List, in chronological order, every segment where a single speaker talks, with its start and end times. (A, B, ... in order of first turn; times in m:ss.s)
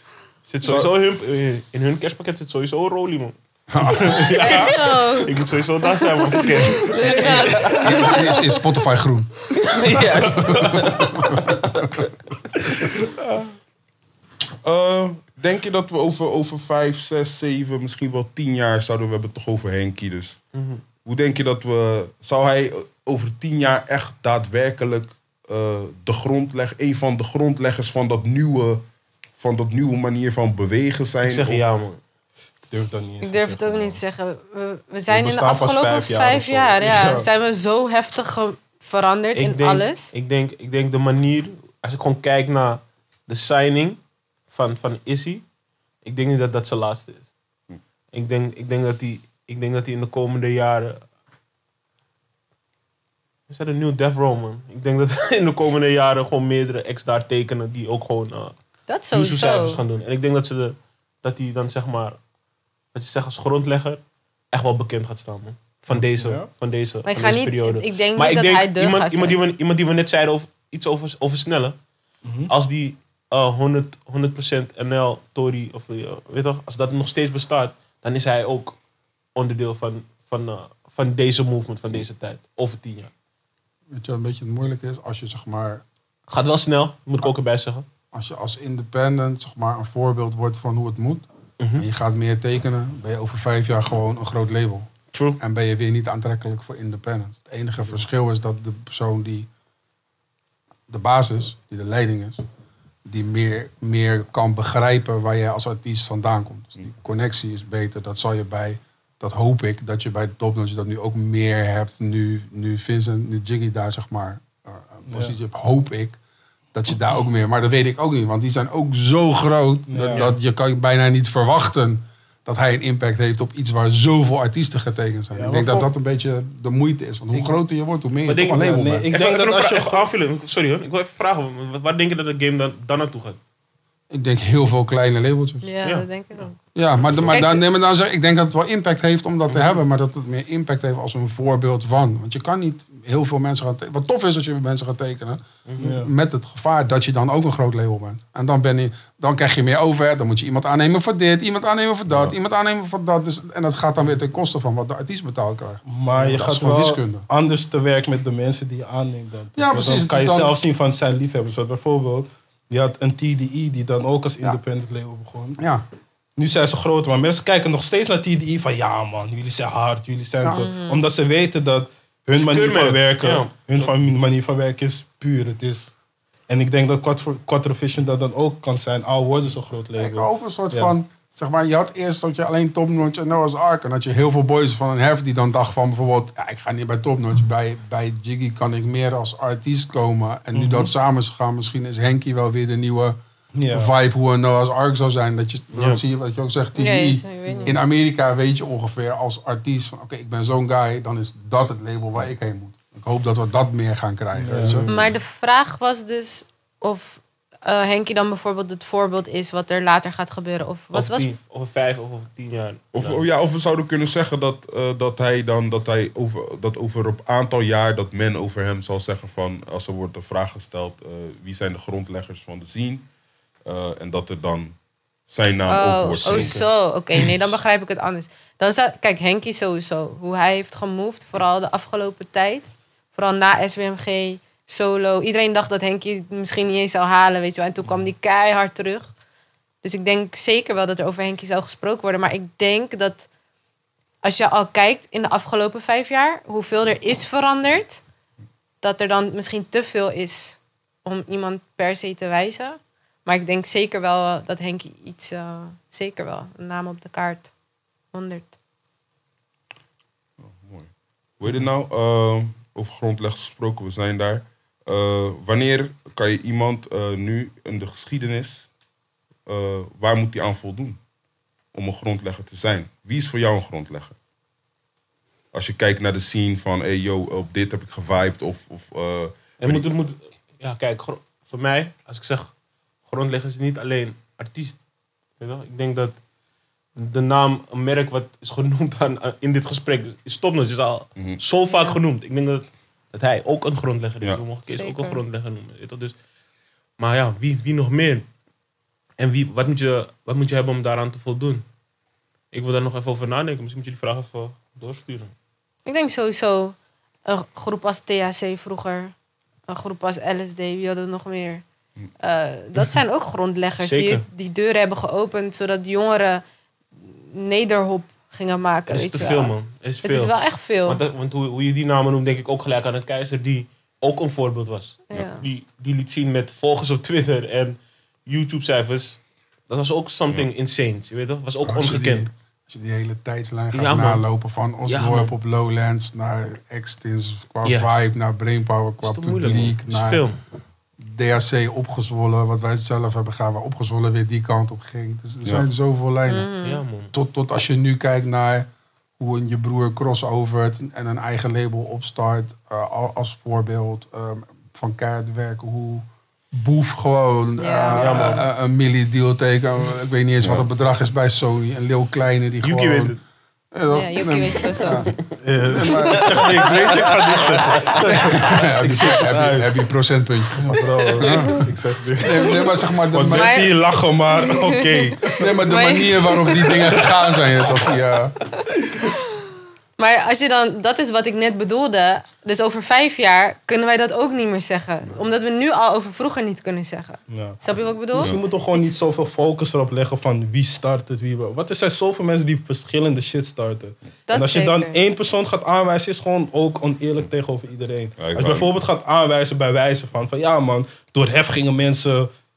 0:00.5-0:03.3 A
0:00.6-0:00.9 B
0:03.7-0:04.3 C
0:03.9-0:04.8 D
0:04.0-0:08.2 A
0:04.4-0:08.5 E
0:07.0-0:08.0 D
0:07.6-0:09.5 C
0:09.6-0:11.7 A
0:10.2-0:12.1 C
0:14.6-0:20.4 B
0:20.5-0:20.8 A
0:21.0-0:28.8 B
0:29.4-0:31.7 B
0:31.2-0:32.0 A
0:32.7-0:34.0 D
0:33.2-0:40.1 E
0:35.1-0:37.3 D
0:39.3-0:45.4 A
0:46.0-0:47.3 A
0:48.1-0:51.0 A
0:53.5-0:58.6 A
0:58.9-0:59.8 E
0:59.1-1:02.2 A
1:02.9-1:11.8 A
1:05.9-1:06.5 D
1:07.0-1:09.4 E
1:12.2-1:12.5 D
1:12.5-1:18.8 A
1:19.3-1:23.1 A
1:23.9-1:25.8 C
1:26.3-1:27.8 A
1:28.1-1:31.2 C
1:31.6-1:31.8 A
1:31.8-1:39.5 C
1:35.1-1:35.4 A
1:40.9-1:42.4 C
1:43.0-1:56.2 C
1:55.0-1:55.3 D
1:56.7-2:09.1 C
1:59.9-2:00.3 D
2:00.1-2:00.4 A
2:05.3-2:05.9 D
2:07.3-2:07.6 D
2:08.3-2:13.4 A
2:08.5-2:10.1 D
2:14.1-2:15.6 C
2:15.6-2:16.6 E
2:15.8-2:16.5 A
2:16.7-2:37.3 C
2:17.3-2:17.6 E
2:19.5-2:19.8 A
2:25.6-2:26.0 A
2:25.8-2:26.1 D
2:32.1-2:32.3 B
2:35.8-2:45.6 D
2:36.2-2:36.4 A
2:39.6-2:40.5 C
2:45.6-2:45.8 C
2:46.4-2:55.9 D
2:50.4-2:50.7 C
2:50.5-2:51.0 E
2:52.3-2:53.9 A
2:56.5-3:00.9 D
3:00.0-3:13.2 C
3:10.5-3:10.9 D
3:13.5-3:13.9 D
3:13.7-3:24.9 C
3:15.7-3:16.0 A
3:16.8-3:17.8 E
3:17.5-3:17.7 D
3:24.3-3:24.9 D
3:24.9-3:31.3 E
3:30.9-3:33.2 A
3:32.9-3:43.1 B
3:43.6-3:44.8 B
3:45.3-3:46.7 B
3:45.7-3:59.1 E
3:46.2-3:46.6 A
3:59.8-4:03.3 E
4:04.2-4:08.0 E
4:08.8-4:17.5 E
4:18.1-4:18.5 E
4:20.4-4:28.7 B
4:29.4-4:31.0 B
4:31.7-4:34.2 B
4:35.5-4:39.9 B
4:39.6-4:42.5 A
4:43.0-4:44.8 A
4:45.4-4:46.2 A
4:46.9-4:56.1 A
4:51.2-4:51.4 B
4:51.7-4:52.0 E
4:54.7-4:55.2 E
4:57.0-4:58.3 A
4:59.2-5:01.6 A
5:02.5-5:05.3 A
5:05.8-5:09.1 E
5:09.7-5:11.6 E
5:12.2-5:16.4 E
5:13.8-5:14.2 A
5:17.0-5:21.0 E
5:18.9-5:32.3 A
5:25.1-5:25.4 E
5:31.6-5:40.2 C
5:33.7-5:34.3 A
5:34.8-5:35.3 A
5:37.6-5:37.9 A
5:39.0-5:40.4 A
5:41.0-5:46.5 C
5:46.3-5:46.8 E
5:46.6-5:47.1 A
5:47.1-5:48.7 C
5:49.2-6:03.2 C
5:57.6-5:58.3 E
5:58.0-5:58.4 A
6:02.6-6:03.2 A
6:03.7-6:07.0 C
6:03.9-6:05.1 E
6:05.4-6:09.7 D
6:06.6-6:06.8 A
6:07.6-6:13.7 C
6:07.8-6:08.4 E
6:10.5-6:15.5 D
6:13.3-6:16.8 E
6:15.4-6:18.4 C
6:20.0-6:29.0 E
6:27.3-6:42.3 D
6:34.3-6:35.0 E
6:38.2-6:38.8 B